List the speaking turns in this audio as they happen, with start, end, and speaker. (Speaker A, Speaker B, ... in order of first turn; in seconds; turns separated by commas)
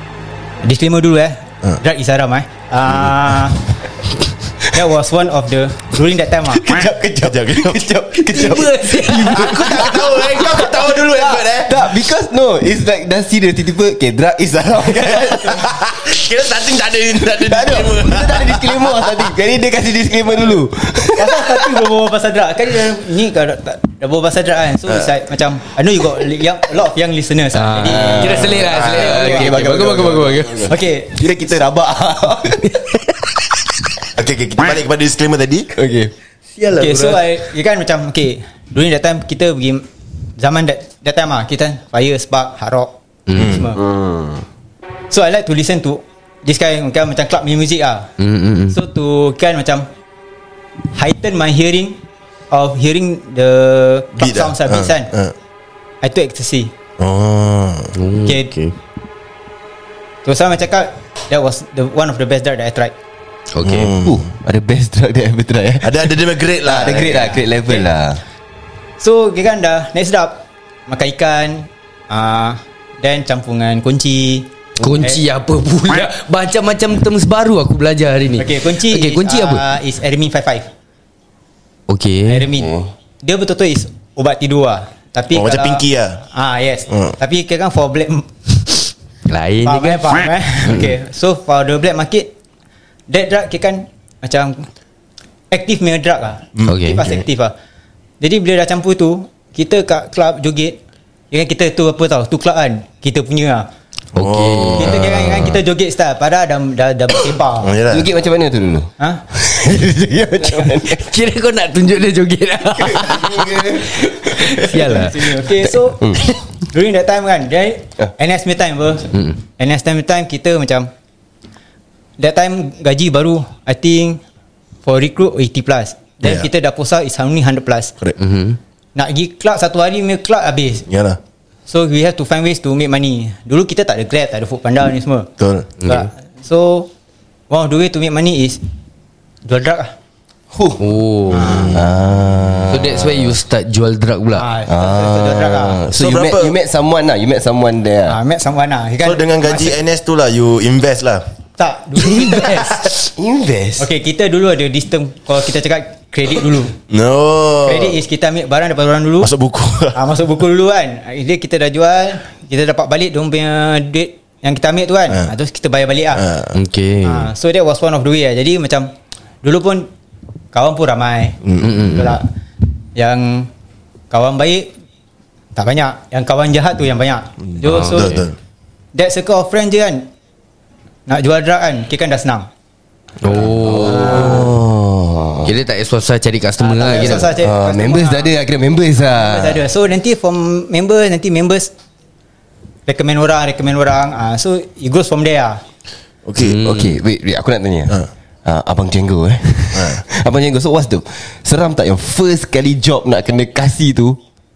Speaker A: 0.6-3.6, Speaker A: 4.7-6.7, Speaker B: 6.5-15.8, Speaker C: 7.2-7.9, Speaker D: 8.2-9.9, Speaker C: 9.2-11.9, Speaker C: 15.2-19.2, Speaker B: 17.2-21.7, Speaker A: 21.1-29.5, Speaker D: 27.5-30.7, Speaker B: 27.8-32.8, Speaker C: 28.7-29.1, Speaker A: 30.7-31.2, Speaker D: 32.7-33.0, Speaker C: 34.1-35.7, Speaker B: 35.7-36.1, Speaker D: 36.6-37.4, Speaker A: 36.7-42.9, Speaker D: 43.3-43.6, Speaker C: 43.3-43.6, Speaker A: 43.5-43.8, Speaker B: 43.7-44.4, Speaker A: 45.1-48.1, Speaker D: 48.2-48.8, Speaker A: 48.7-49.9, Speaker A: 50.9-52.0, Speaker A: 52.5-55.1, Speaker C: 54.2-55.3, Speaker A: 56.0-56.7, Speaker C: 57.0-57.9, Speaker D: 57.9-58.8, Speaker A: 58.2-58.5, Speaker A: 60.2-62.9, Speaker D: 63.5-63.9, Speaker C: 63.6-64.2, Speaker B: 64.0-68.2, Speaker C: 65.8-67.3, Speaker A: 66.7-67.9, Speaker A: 69.0-75.2, Speaker D: 74.8-79.7, Speaker A: 78.4-80.7, Speaker D: 81.9-82.5, Speaker A: 82.2-88.8, Speaker B: 82.5-82.9, Speaker C: 85.3-86.2, Speaker D: 89.3-90.9, Speaker A: 89.6-92.3, Speaker A: 93.1-94.7, Speaker A: 95.5-97.5, Speaker C: 96.5-97.2, Speaker D: 96.7-97.1, Speaker A: 98.2-100.8, Speaker A: 101.3-103.7, Speaker D: 104.1-105.4, Speaker C: 104.2-105.6, Speaker A: 104.8-107.7, Speaker C: 107.6-108.1, Speaker B: 107.9-111.1, Speaker D: 110.9-115.6, Speaker B: 112.7-115.1, Speaker A: 114.6-120.9, Speaker D: 119.1-119.4, Speaker A: 122.2-124.2, Speaker A: 124.8-127.9, Speaker D: 128.2-128.6, Speaker A: 128.9-130.8, Speaker C: 130.9-131.2, Speaker A: 131.7-135.3, Speaker C: 135.4-135.7, Speaker D: 135.8-136.1, Speaker A: 135.8-136.9, Speaker A: 137.5-138.6, Speaker A: 139.4-139.9, Speaker B: 140.5-140.8, Speaker D: 140.8-141.7, Speaker A: 141.3-141.8, Speaker C: 141.4-141.8, Speaker B: 141.7-143.3, Speaker D: 142.7-144.5, Speaker A: 144.3-145.8, Speaker B: 144.7-148.2, Speaker C: 145.9-146.5, Speaker A: 148.1-149.8, Speaker C: 149.0-151.3, Speaker A: 151.6-153.1, Speaker D: 152.0-152.9, Speaker B: 153.0-153.9, Speaker A: 153.8-156.8, Speaker C: 156.9-158.0, Speaker A: 157.6-159.3, Speaker C: 159.2-160.0, Speaker A: 159.9-166.2, Speaker C: 166.1-166.6, Speaker D: 166.5-167.3, Speaker A: 167.0-168.9, Speaker A: 169.4-169.9, Speaker A: 170.5-172.3, Speaker C: 171.4-171.9, Speaker D: 171.6-172.2, Speaker A: 172.9-173.5, Speaker A: 174.1-174.7, Speaker A: 175.6-178.2, Speaker C: 177.4-178.3, Speaker D: 177.6-178.2, Speaker A: 178.9-180.1, Speaker A: 181.1-182.5, Speaker D: 183.2-184.5, Speaker B: 183.3-185.5, Speaker A: 183.8-184.5, Speaker D: 185.4-187.3, Speaker A: 186.6-188.3, Speaker B: 187.3-189.6, Speaker A: 189.1-191.7, Speaker A: 192.9-195.6, Speaker C: 196.2-196.6, Speaker D: 196.4-197.0, Speaker B: 196.6-204.2, Speaker C: 199.7-200.0